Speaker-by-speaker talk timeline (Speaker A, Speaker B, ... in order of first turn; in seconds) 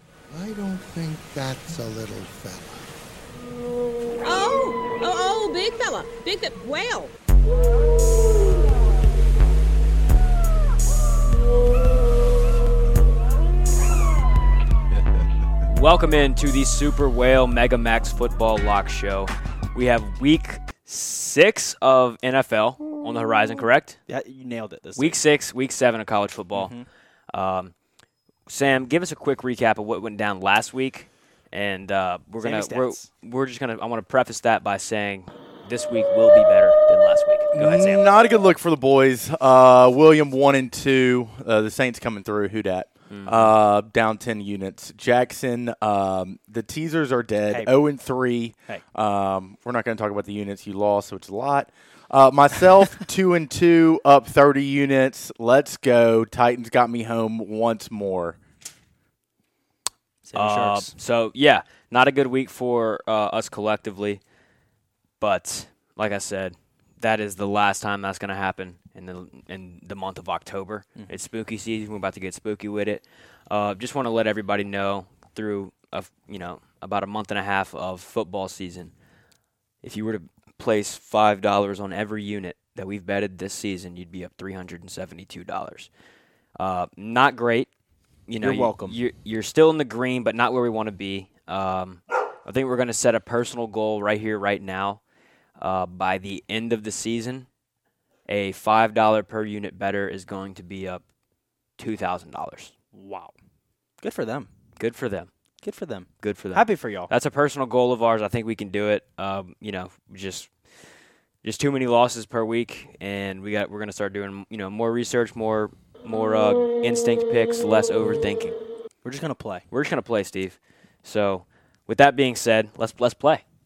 Speaker A: 0.3-2.8
Speaker B: 4.2-7.1
Speaker C: 15.7-24.0, 25.0-26.8, 27.3-27.7, 28.5-38.0, 43.1-43.5, 60.3-64.2, 65.2-78.9, 79.8-85.9, 86.6-87.7, 88.3-95.0, 95.6-97.5, 98.3-101.0, 101.8-102.7, 104.8-105.3, 106.2-110.6, 111.4-118.6, 119.7-123.4
Speaker D: 24.1-25.2, 26.5-26.8, 32.4-33.1, 47.5-47.7, 60.2-61.0, 88.4-89.0, 102.9-103.3, 104.0-104.5, 105.6-107.1, 119.0-119.7
Speaker E: 37.5-58.4